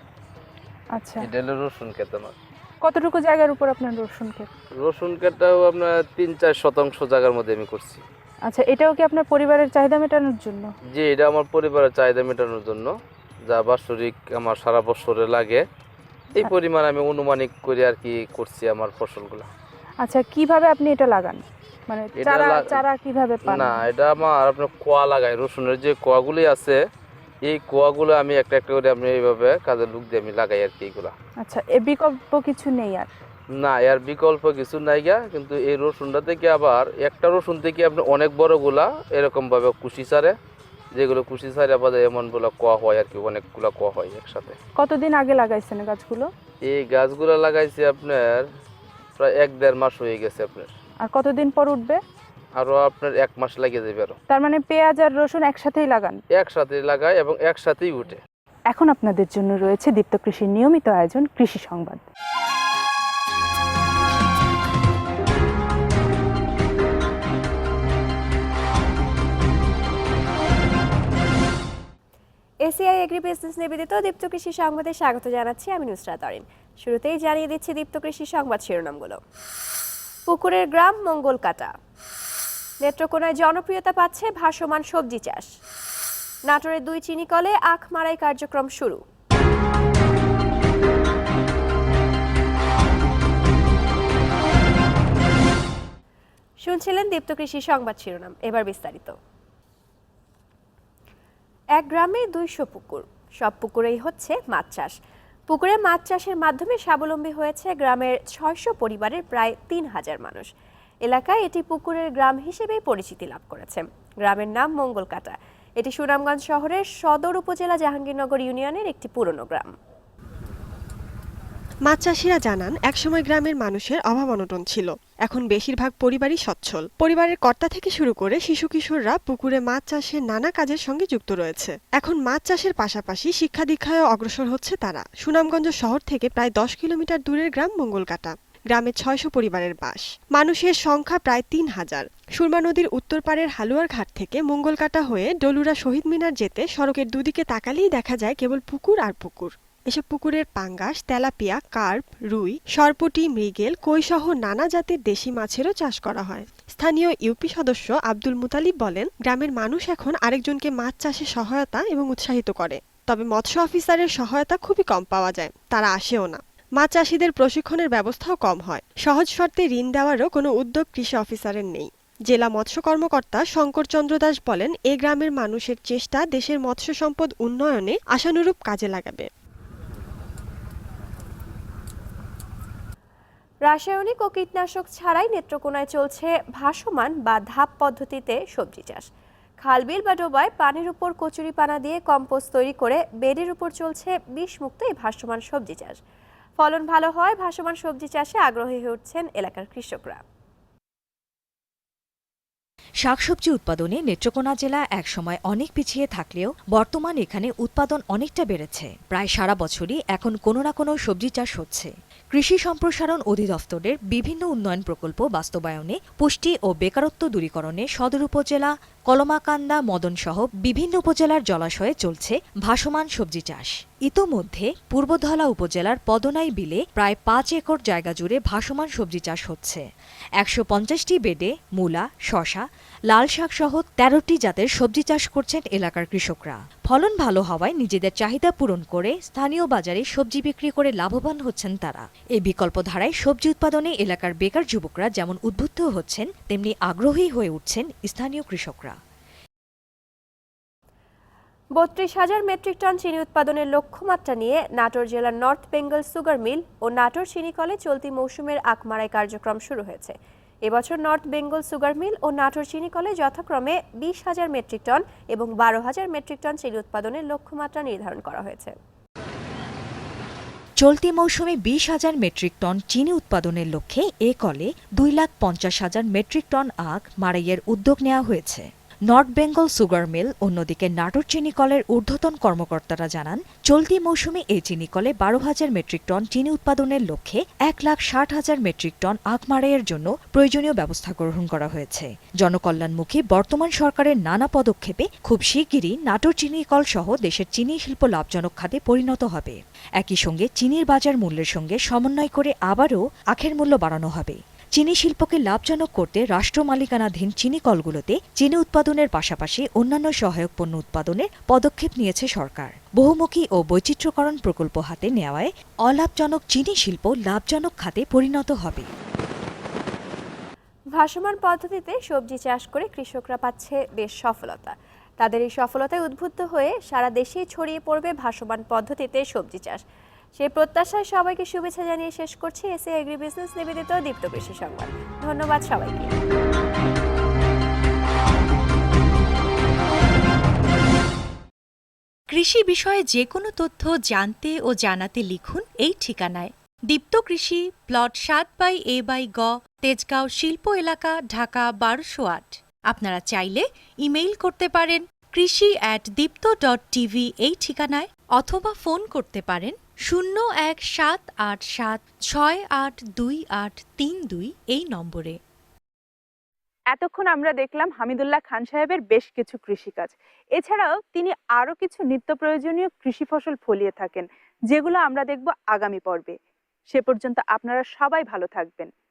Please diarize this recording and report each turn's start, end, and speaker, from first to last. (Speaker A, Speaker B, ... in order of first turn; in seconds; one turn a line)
Speaker A: 0.9-1.2
Speaker B: 1.2-2.3
Speaker A: 2.8-4.5
Speaker B: 4.8-8.0
Speaker A: 8.5-10.7
Speaker B: 10.9-12.9
Speaker B: 13.5-15.6
Speaker B: 16.4-19.5
Speaker A: 20.0-23.8
Speaker B: 22.2-22.8
Speaker B: 23.5-26.8
Speaker B: 27.4-31.1
Speaker A: 31.4-33.1
Speaker B: 33.6-40.3
Speaker B: 41.0-44.5
Speaker A: 44.7-46.3
Speaker B: 46.7-48.5
Speaker B: 49.2-50.7
Speaker A: 51.0-52.0
Speaker B: 52.6-54.1
Speaker A: 54.3-56.2
Speaker B: 56.4-58.2
Speaker A: 58.7-62.0
Speaker C: 72.7-79.2
Speaker C: 80.3-81.7
Speaker C: 82.8-85.5
Speaker C: 86.5-89.0
Speaker C: 96.6-99.2
Speaker C: 101.8-104.9
Speaker C: 105.5-110.5
Speaker C: 111.0-119.7
Speaker D: 121.9-179.3
Speaker C: 183.7-189.1
Speaker C: 189.6-196.0
Speaker C: 196.6-200.2
Speaker E: 203.0-229.8
Speaker E: 230.4-248.9
Speaker C: 251.8-260.1
Speaker C: 260.6-268.7
Speaker E: 270.8-318.9
Speaker C: 320.9-329.8
Speaker C: 330.4-336.1
Speaker F: 342.3-365.4
Speaker A: 366.9-378.9